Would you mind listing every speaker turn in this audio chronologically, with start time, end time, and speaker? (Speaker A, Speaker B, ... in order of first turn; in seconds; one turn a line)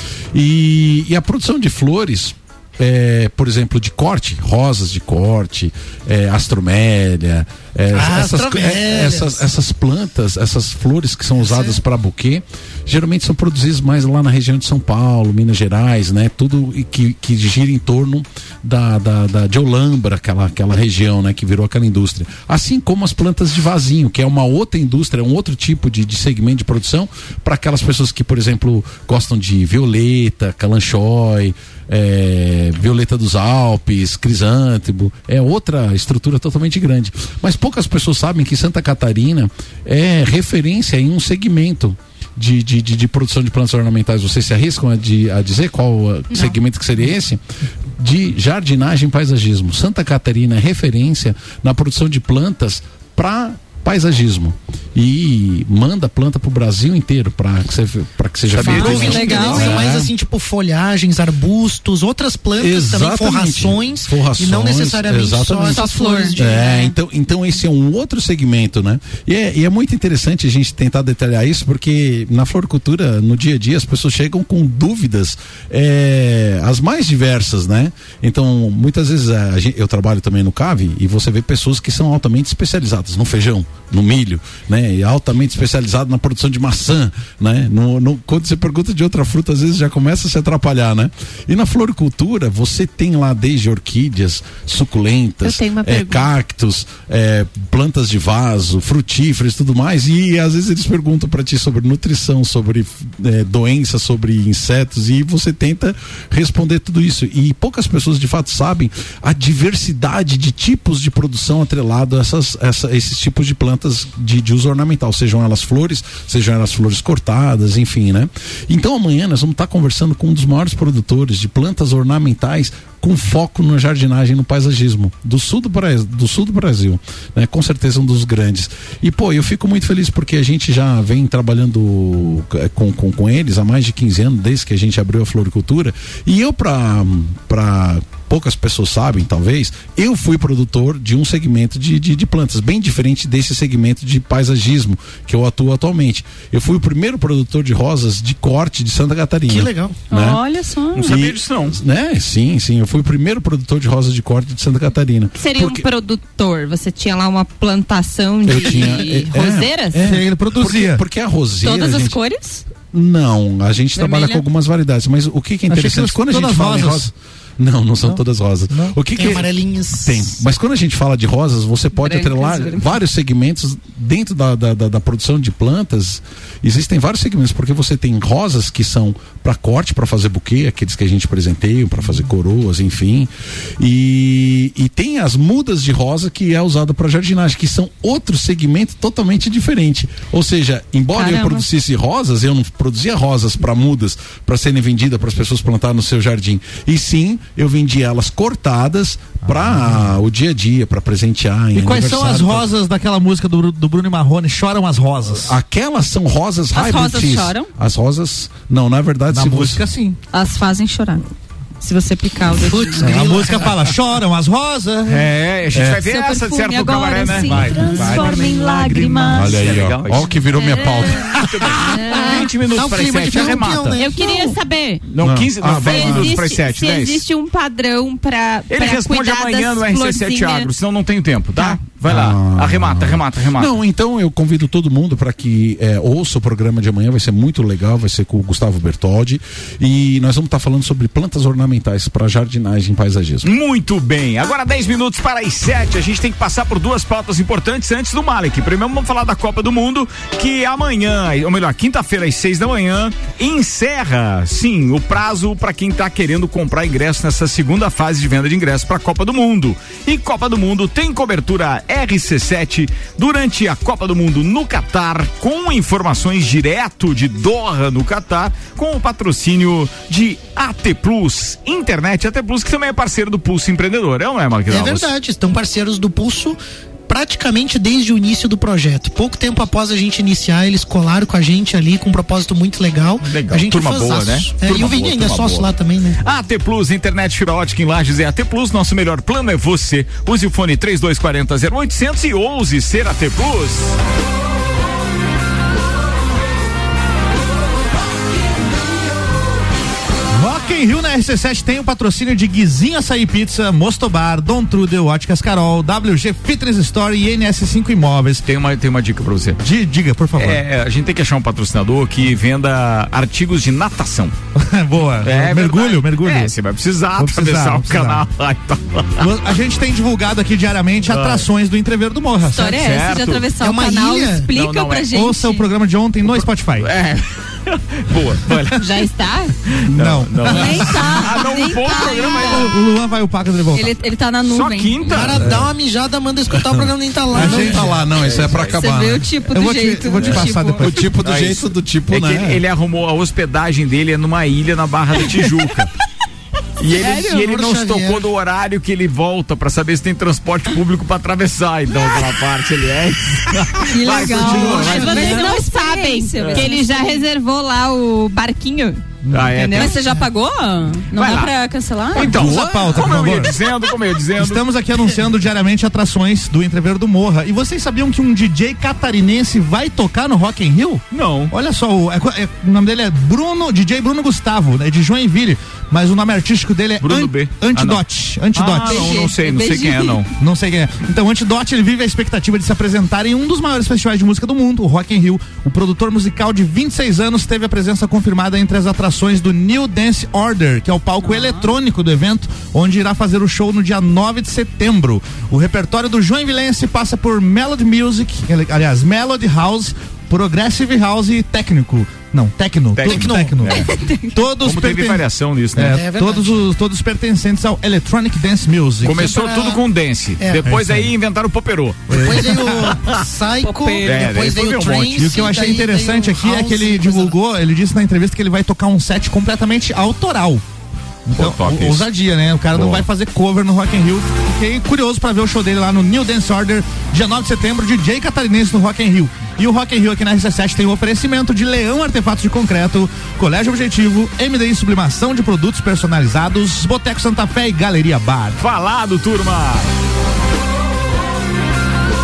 Speaker A: 0.3-47.4
Speaker B: 7.9-9.4
Speaker B: 11.4-11.8
Speaker A: 48.0-60.1
Speaker C: 58.5-59.3
Speaker D: 58.6-59.9
Speaker B: 58.7-66.8
Speaker A: 62.6-150.4
Speaker D: 65.6-66.7
Speaker E: 95.4-96.3
Speaker B: 149.5-150.0
Speaker D: 150.1-151.1
Speaker C: 150.9-151.8
Speaker A: 151.0-155.9
Speaker E: 155.3-160.1
Speaker A: 158.4-162.2
Speaker F: 159.9-161.0
Speaker D: 161.6-162.6
Speaker A: 162.9-202.7
Speaker D: 163.9-164.4
Speaker F: 165.7-167.1
Speaker B: 169.1-170.3
Speaker D: 171.9-172.9
Speaker D: 191.1-191.6
Speaker F: 199.4-200.1
Speaker F: 201.7-205.5
Speaker A: 205.4-209.8
Speaker D: 206.7-207.7
Speaker F: 209.3-210.2
Speaker D: 210.3-211.2
Speaker D: 211.8-213.3
Speaker B: 212.6-213.7
Speaker F: 213.0-215.3
Speaker C: 215.1-217.7
Speaker A: 215.7-216.0
Speaker D: 216.0-219.6
Speaker F: 217.4-220.0
Speaker A: 219.3-221.7
Speaker C: 219.5-220.3
Speaker D: 220.6-221.2
Speaker C: 221.3-224.0
Speaker B: 222.7-224.2
Speaker E: 224.0-225.0
Speaker C: 225.1-227.2
Speaker A: 225.2-226.4
Speaker E: 225.8-230.7
Speaker C: 228.7-233.7
Speaker A: 232.1-243.5
Speaker C: 243.4-275.1
Speaker B: 274.7-286.2
Speaker C: 283.2-285.7
Speaker C: 286.2-293.9
Speaker F: 300.4-308.4
Speaker C: 308.4-309.6
Speaker F: 309.6-310.6
Speaker C: 310.4-314.4
Speaker F: 314.6-316.5
Speaker C: 315.2-319.3
Speaker F: 317.2-318.2
Speaker F: 319.2-322.8
Speaker C: 321.1-321.5
Speaker D: 322.4-325.7
Speaker C: 322.7-323.5
Speaker B: 323.6-324.5
Speaker C: 324.5-325.1
Speaker F: 325.1-326.9
Speaker C: 326.2-328.8
Speaker E: 328.7-329.5
Speaker F: 329.9-331.4
Speaker C: 329.9-332.7
Speaker D: 330.5-332.7
Speaker F: 332.3-333.9
Speaker D: 333.7-335.3
Speaker C: 334.4-335.4
Speaker B: 335.1-338.1
Speaker F: 335.3-335.6
Speaker F: 337.3-338.6
Speaker A: 337.3-339.3
Speaker C: 338.2-338.8
Speaker D: 338.7-341.0
Speaker F: 339.4-341.0
Speaker A: 340.8-342.6
Speaker C: 341.2-345.9
Speaker C: 346.8-355.4
Speaker B: 346.9-348.3
Speaker D: 347.0-347.4
Speaker D: 353.9-357.2
Speaker B: 354.2-355.4
Speaker E: 354.7-359.9
Speaker C: 356.4-356.7
Speaker F: 359.3-360.2
Speaker C: 359.3-360.1
Speaker D: 359.7-362.6
Speaker C: 361.1-361.5
Speaker C: 362.1-364.6
Speaker F: 362.1-363.6
Speaker F: 364.4-379.3
Speaker C: 371.1-371.5
Speaker C: 377.0-380.3
Speaker D: 378.7-380.3
Speaker F: 380.4-409.3
Speaker D: 391.2-391.7
Speaker C: 402.9-403.9
Speaker B: 403.1-403.7
Speaker D: 403.9-404.4
Speaker C: 404.6-406.0
Speaker B: 405.8-406.7
Speaker C: 409.0-413.2
Speaker B: 409.0-409.8
Speaker B: 410.4-410.7
Speaker F: 410.6-411.1
Speaker F: 412.1-412.9
Speaker B: 412.1-417.4
Speaker D: 413.6-414.3
Speaker C: 414.0-415.3
Speaker F: 415.1-420.6
Speaker F: 421.3-438.6
Speaker C: 421.4-422.1
Speaker C: 422.7-423.1
Speaker C: 438.6-439.9